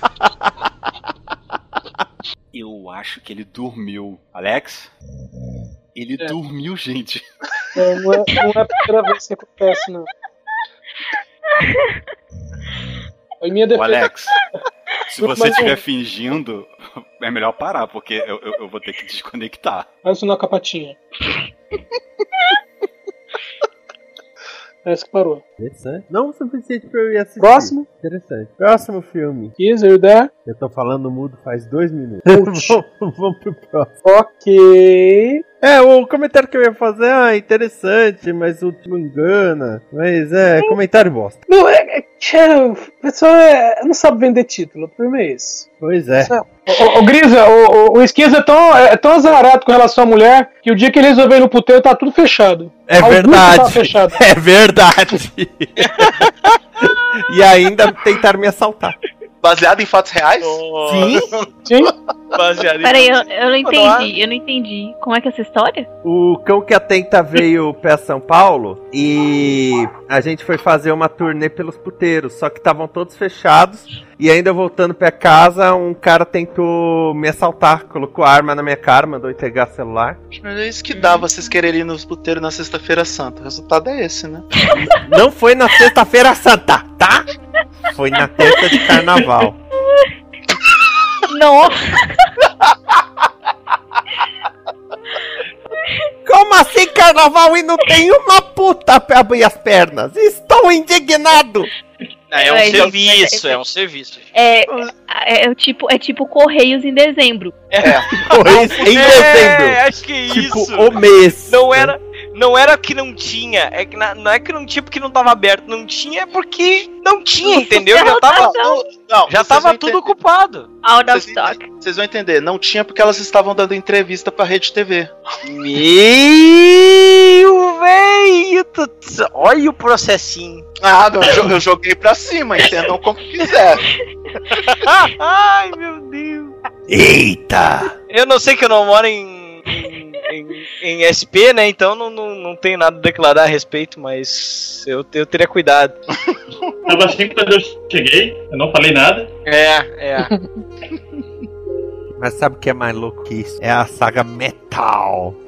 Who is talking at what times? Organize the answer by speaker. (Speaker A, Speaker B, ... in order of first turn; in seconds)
Speaker A: 2.5-4.9, 5.9-7.7, 13.7-14.3, 15.1-19.9
Speaker B: 7.8-10.1, 13.4-14.2, 15.1-15.8, 20.0-21.0, 24.8-25.4, 27.4-27.9, 29.6-30.3, 32.3-32.8, 34.0-35.4, 41.5-45.7, 46.2-54.2, 61.7-61.9
Speaker C: 25.6-29.5, 30.4-33.9, 35.6-41.4, 45.8-46.3, 52.9-58.9, 60.8-61.2, 66.0-80.2, 84.8-87.2, 87.9-89.6, 96.2-101.7, 108.2-111.9, 136.9-137.9, 152.2-155.4
Speaker D: 59.4-61.2, 80.3-84.5, 102.6-102.9, 107.8-108.1, 118.3-120.1, 121.1-125.1, 130.8-133.8
Speaker E: 60.4-61.1, 62.3-64.1, 102.3-104.2, 107.7-110.9, 111.5-118.5, 119.3-120.7, 125.4-130.6, 134.6-136.5, 138.1-145.9, 149.4-150.3
Speaker F: 62.8-65.9, 88.4-88.8, 91.3-92.1, 102.4-103.6, 104.3-107.6, 117.4-118.8, 120.8-121.7
Speaker G: 146.9-149.3